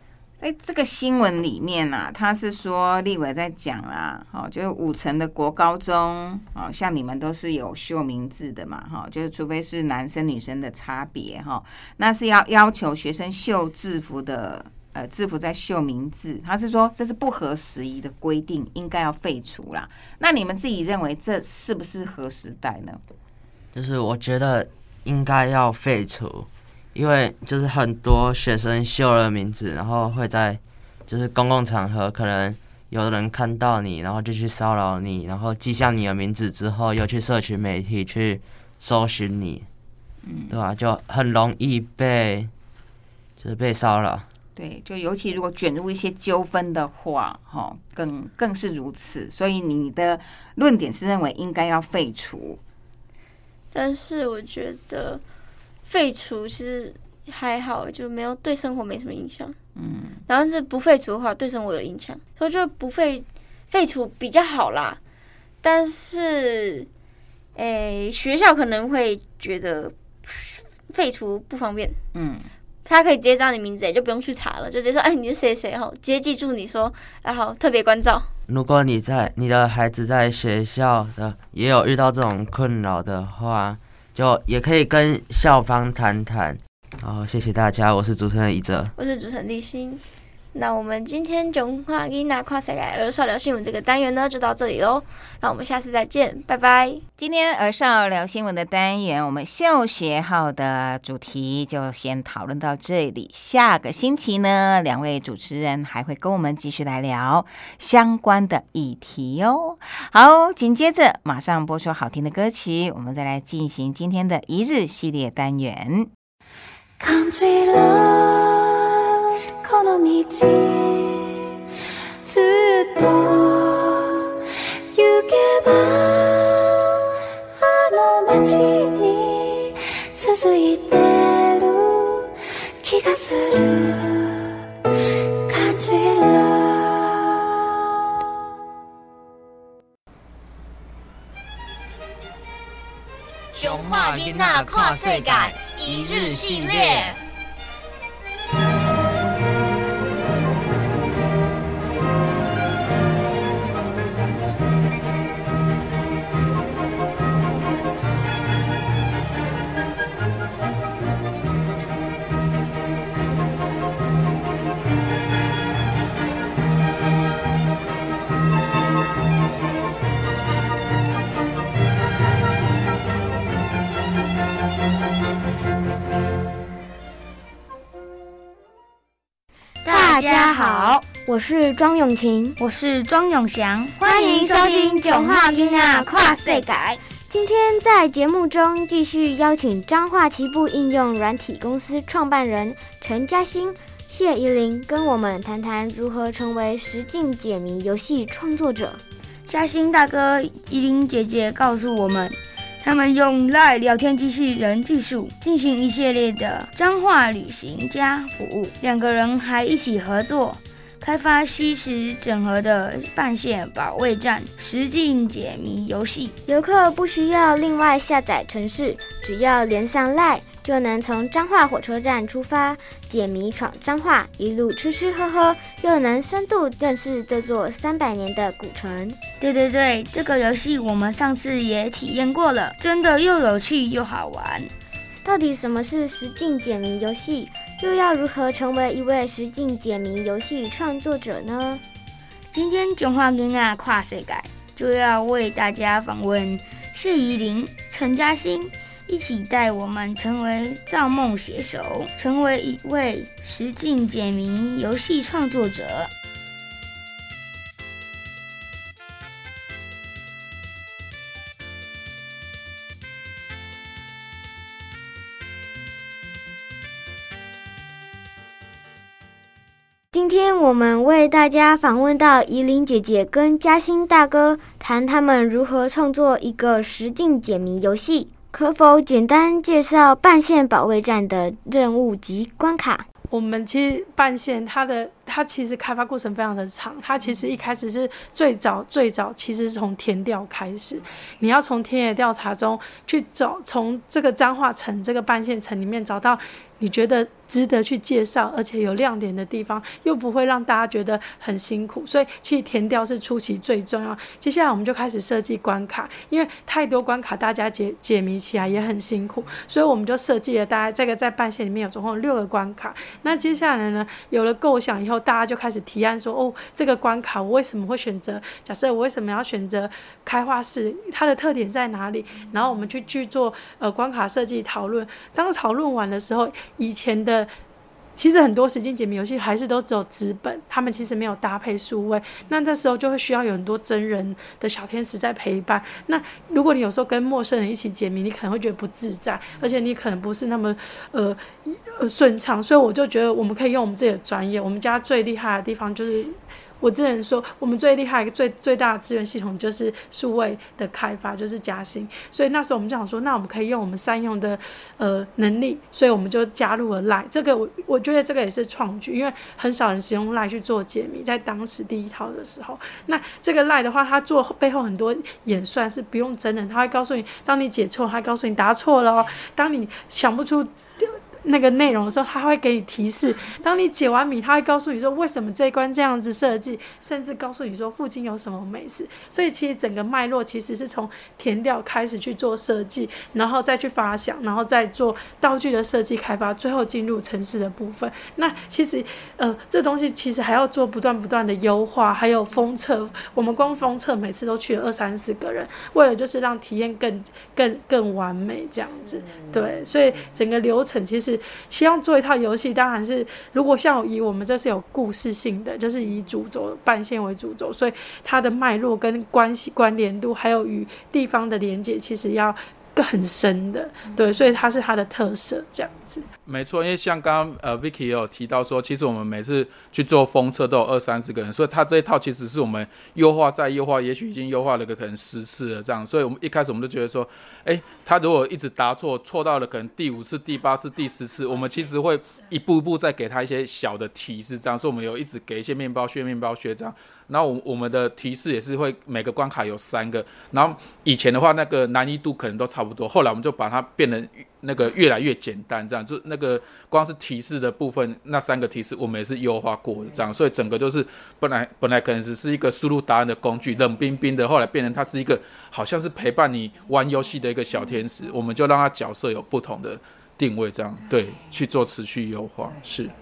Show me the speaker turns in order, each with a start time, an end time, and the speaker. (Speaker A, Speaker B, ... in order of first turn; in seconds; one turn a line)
Speaker A: 0.4-23.0
Speaker B: 23.7-39.6
Speaker A: 40.2-40.5
Speaker B: 40.5-42.5
Speaker B: 43.4-44.2
Speaker A: 44.5-52.6
Speaker C: 53.7-55.2
Speaker C: 55.9-59.5
Speaker A: 59.8-60.2
Speaker C: 60.3-65.0
Speaker C: 65.6-66.9
Speaker C: 67.5-72.0
Speaker A: 72.1-72.5
Speaker C: 72.8-78.3
Speaker B: 78.5-88.9
Speaker C: 89.0-90.0
Speaker C: 90.5-97.0
Speaker A: 97.2-116.1
Speaker D: 117.0-118.8
Speaker D: 119.6-121.4
Speaker D: 122.2-124.2
Speaker D: 124.9-126.9
Speaker D: 127.5-134.5
Speaker D: 135.5-137.5
Speaker E: 143.5-147.2
Speaker F: 179.8-181.0
Speaker G: 179.8-182.6
Speaker F: 182.6-187.0
Speaker G: 184.0-199.0
Speaker F: 199.5-216.3
Speaker G: 216.4-229.2
Speaker F: 229.4-234.7
Speaker G: 235.2-241.8
Speaker F: 242.5-256.1
Speaker G: 270.1-283.1
Speaker H: 283.3-327.5
Speaker H: 328.1-416.2
Speaker I: 416.4-463.1